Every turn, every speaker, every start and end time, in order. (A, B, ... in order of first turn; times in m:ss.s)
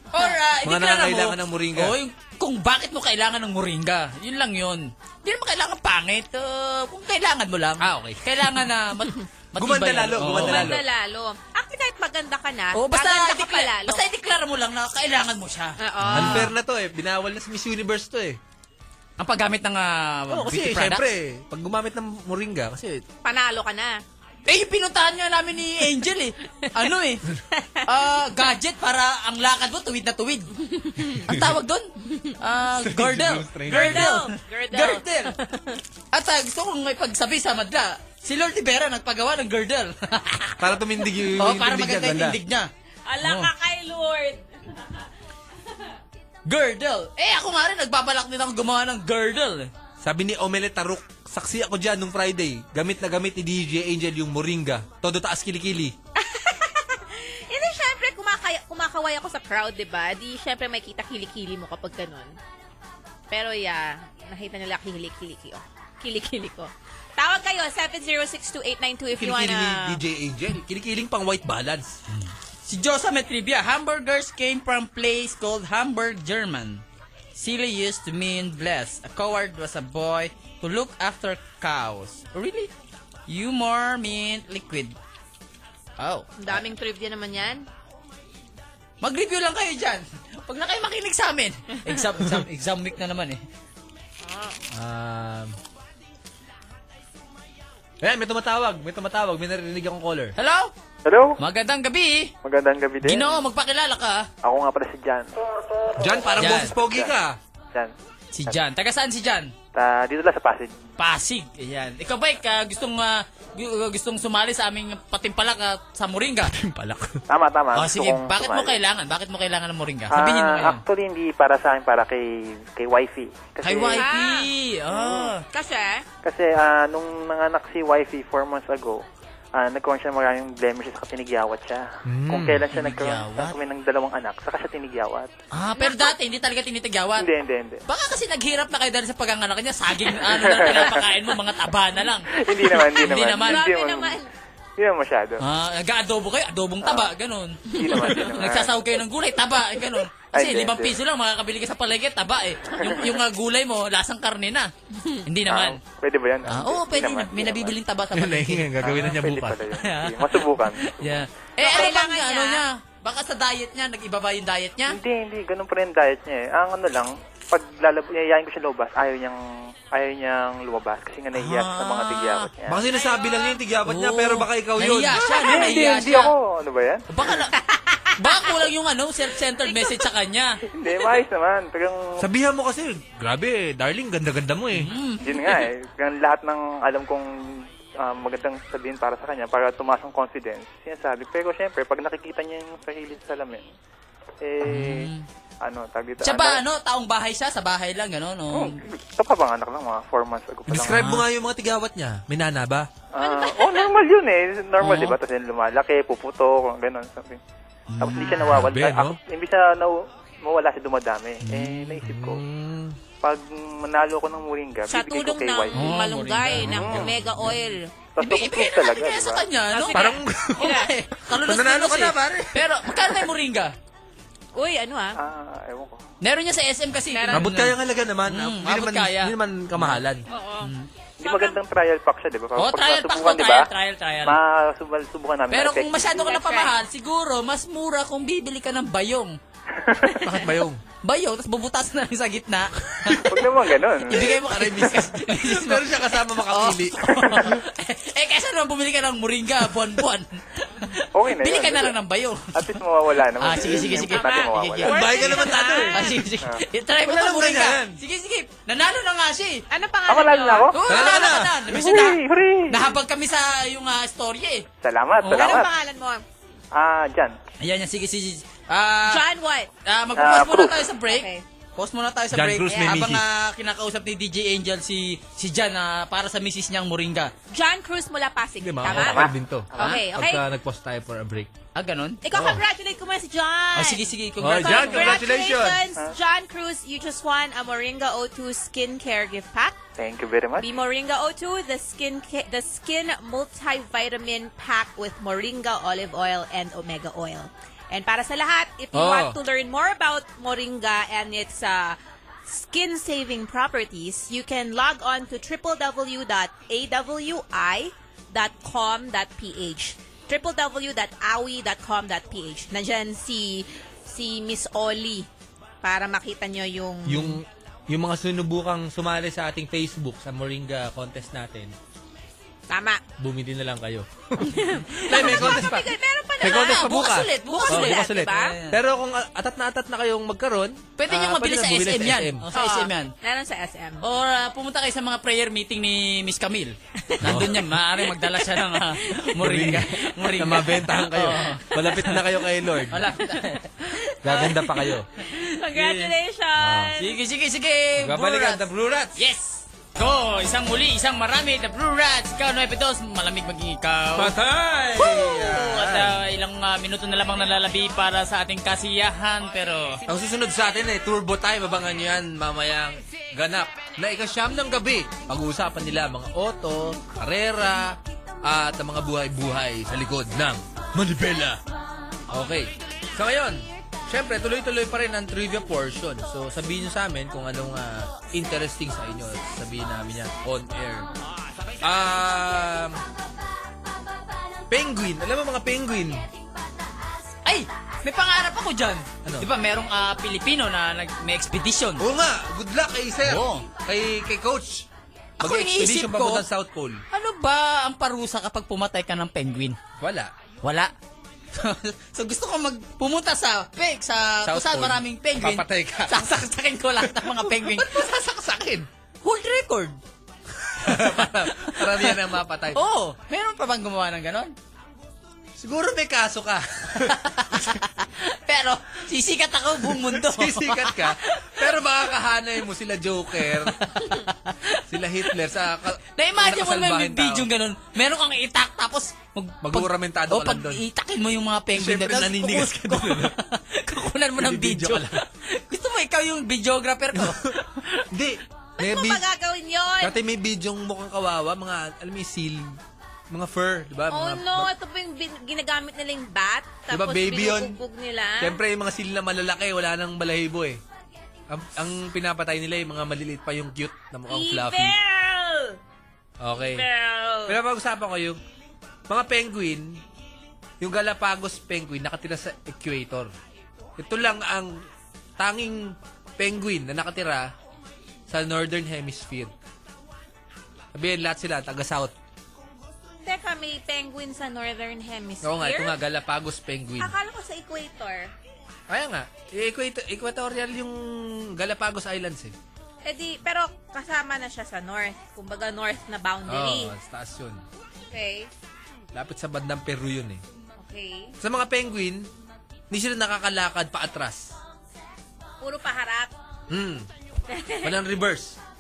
0:00.1-0:10.7 A
0:00.6-0:02.0 B
0:07.8-0:08.2 B
0:09.6-0:10.8 B
0:10.2-0:14.0 C
0:12.7-0:16.5 A
0:15.8-0:16.5 C
0:16.1-0:18.4 B
0:19.2-0:21.0 A
0:20.3-0:23.0 B
0:23.2-0:24.0 C
0:24.5-0:27.2 A
0:27.5-0:27.8 C
0:27.8-0:30.5 A
0:31.3-0:35.4 A
0:32.8-0:34.1 B
0:33.7-0:35.8 C
0:36.1-0:40.6 A
0:40.6-0:42.4 B
0:41.4-0:42.7 A
0:43.1-0:45.0 C
0:43.2-0:43.5 A
0:46.5-0:49.7 A
0:50.0-0:56.0 B
0:56.2-1:02.4 C
1:03.3-1:10.0 C
1:09.2-1:12.0 B
1:12.1-1:16.8 A
1:17.4-1:22.7 A
1:23.3-1:25.0 A
1:26.0-1:26.6 A
1:26.4-1:27.6 C
1:29.0-1:33.4 A
1:34.2-1:34.6 C
1:34.7-1:35.6 B
1:38.0-1:40.4 B
1:40.4-1:40.7 A
1:41.0-1:41.4 D
1:41.4-1:42.3 A
1:42.4-1:43.4 D
1:43.0-1:44.3 A
1:44.4-1:45.3 D
1:46.0-1:47.4 B
1:46.4-1:46.8 A
1:46.8-1:47.1 D
1:48.3-1:49.5 A
1:49.7-1:50.7 D
1:51.0-1:56.5 A
1:56.5-1:57.2 B
1:57.3-1:58.8 D
1:57.8-2:00.8 A
2:00.1-2:04.1 D
2:03.6-2:05.4 A
2:04.0-2:04.5 C
2:04.9-2:05.3 D
2:05.4-2:06.0 C
2:06.2-2:09.0 D
2:09.6-2:15.3 D
2:12.1-2:12.6 B
2:12.7-2:13.6 A
2:15.5-2:17.3 A
2:15.8-2:16.1 C
2:17.2-2:17.8 D
2:17.9-2:23.6 A
2:20.2-2:21.1 D
2:22.3-2:24.2 D
2:23.3-2:24.3 C
2:24.8-2:25.4 D
2:25.4-2:34.7 A
2:26.8-2:27.1 D
2:27.7-2:29.0 D
2:30.2-2:31.0 D
2:32.8-2:33.2 D
2:35.2-2:35.8 A
2:35.5-2:37.8 D
2:36.5-2:45.0 A
2:38.2-2:39.6 B
2:38.9-2:41.9 D
2:41.6-2:42.6 C
2:44.9-2:49.4 D
2:49.9-2:52.8 D
2:51.4-2:52.5 A
2:52.7-2:55.6 B
2:52.9-2:53.6 C
2:53.8-2:56.3 A
2:55.5-2:57.1 D
2:57.1-2:57.6 A
2:57.6-2:58.5 C
2:58.2-3:00.6 A
3:00.8-3:02.2 D
3:02.2-3:04.9 B
3:04.8-3:05.6 A
3:05.2-3:07.3 D
3:08.0-3:13.7 D
3:14.4-3:15.1 D
3:14.6-3:15.3 A
3:15.6-3:16.6 D
3:16.2-3:18.8 A
3:18.5-3:21.1 D
3:20.7-3:22.9 B
3:20.8-3:21.2 A
3:23.1-3:27.4 D
3:23.2-3:23.9 C
3:24.8-3:25.2 A
3:27.9-3:28.6 A
3:28.0-3:32.4 D
3:28.4-3:29.2 B
3:31.5-3:33.0 B
3:33.2-3:36.0 D
3:34.9-3:37.9 C
3:35.8-3:37.5 A
3:36.6-3:37.5 B
3:38.2-3:39.5 D
3:38.2-3:43.7 A
3:39.7-3:40.9 C
3:39.9-3:42.6 B
3:44.6-3:45.2 C
3:45.2-3:46.0 D
3:46.2-3:50.0 A
3:47.1-3:47.5 C
3:47.3-3:50.2 B
3:50.3-3:50.7 C
3:50.6-3:50.9 A
3:51.2-3:53.7 D
3:51.2-3:51.6 C
3:52.6-3:54.4 A
3:54.2-3:56.3 D
3:55.5-3:59.4 A
3:56.1-3:56.7 C
3:59.8-4:00.2 D
4:00.2-4:00.8 B
4:01.0-4:03.2 A
4:03.0-4:03.4 B
4:03.3-4:04.3 D
4:04.1-4:05.9 A
4:04.1-4:07.6 B
4:06.5-4:12.8 A
4:11.1-4:12.0 D
4:12.5-4:15.0 D
4:13.4-4:19.6 A
4:13.7-4:16.2 C
4:14.8-4:16.2 B
4:17.0-4:18.0 B
4:19.7-4:20.7 C
4:20.1-4:20.8 D
4:20.7-4:24.6 A
4:20.9-4:21.6 B
4:21.7-4:23.0 D
4:24.8-4:25.7 D
4:25.3-4:26.2 C
4:25.3-4:25.6 A
4:26.7-4:27.4 D
4:27.6-4:29.2 A
4:29.1-4:29.7 C
4:29.8-4:37.3 A
4:30.2-4:30.9 D
4:31.1-4:31.4 C
4:32.3-4:33.2 B
4:32.7-4:33.0 C
4:37.5-4:40.4 C
4:38.6-4:41.5 B
4:41.8-4:42.2 A
4:42.2-4:44.1 C
4:42.3-4:42.6 B
4:43.8-4:45.2 A
4:44.4-4:45.8 B
4:44.6-4:49.8 C
4:50.0-4:50.7 D
4:50.6-5:15.3 C
4:58.9-4:59.4 B
5:15.8-5:17.4 C
5:17.1-5:21.8 B
5:22.7-5:23.0 C
5:23.2-5:32.4 B
5:24.5-5:28.6 C
5:25.2-5:25.6 A
5:26.4-5:28.8 A
5:31.0-5:33.1 A
5:32.5-5:34.0 C
5:34.0-5:42.2 A
5:37.1-5:39.2 C
5:37.2-5:37.7 B
5:39.4-5:43.0 B
5:40.5-5:40.9 C
5:41.4-5:41.8 C
5:42.9-5:43.8 A
5:43.8-5:47.2 C
5:44.2-5:45.1 B
5:45.7-5:46.1 A
5:46.6-5:46.9 B
5:47.0-5:54.4 A
5:48.0-5:49.2 B
5:54.2-5:56.2 B
5:55.0-6:00.0 A
6:00.1-6:11.6 B
6:12.3-6:21.1 B
6:21.8-6:23.0 B
6:24.7-6:26.3 B
6:27.4-6:32.0 A
6:32.0-6:34.9 B
6:33.2-6:33.7 A
6:35.4-6:36.4 A
6:35.4-6:37.0 B
6:37.1-6:39.8 A
6:40.0-6:40.3 B
6:40.6-6:40.9 A
6:41.5-6:48.0 A
6:44.5-6:46.3 B
6:47.0-6:48.9 B
6:49.2-6:50.0 A
6:50.6-6:52.8 B
6:50.8-6:52.2 A
6:52.7-6:54.5 A
6:55.6-6:57.2 B
6:57.1-7:01.6 A
6:59.9-7:03.8 B
7:03.8-7:04.8 A
7:04.9-7:07.5 B
7:06.1-7:18.1 A
7:09.6-7:10.8 B
7:11.7-7:13.3 B
7:14.4-7:15.2 B
7:17.2-7:17.5 B
7:18.1-7:19.2 B
7:18.8-7:20.2 C
7:20.0-7:22.8 B
7:23.3-7:24.7 B
7:24.1-7:28.6 C
7:26.9-7:27.8 B
7:28.4-7:30.8 B
7:31.5-7:35.0 B
7:34.3-7:35.8 C
7:36.4-7:36.9 B
7:36.5-7:37.6 C
7:37.5-7:38.4 B
7:39.1-7:40.0 B
7:40.8-7:43.3 B
7:44.0-7:44.7 B
7:45.4-7:47.5 B
7:48.3-7:49.5 B
7:50.9-7:52.1 B
7:53.2-7:56.0 C
7:55.4-7:57.1 B
7:57.0-7:58.3 C
7:58.9-8:02.5 B
8:03.0-8:06.9 C
8:06.5-8:07.6 B
8:08.1-8:08.5 C
8:09.1-8:10.4 B
8:10.8-8:11.4 C
8:11.4-8:12.3 B
8:12.9-8:14.6 B
8:15.6-8:16.3 C
8:16.7-8:17.1 B
8:17.5-8:17.9 C
8:17.8-8:18.6 B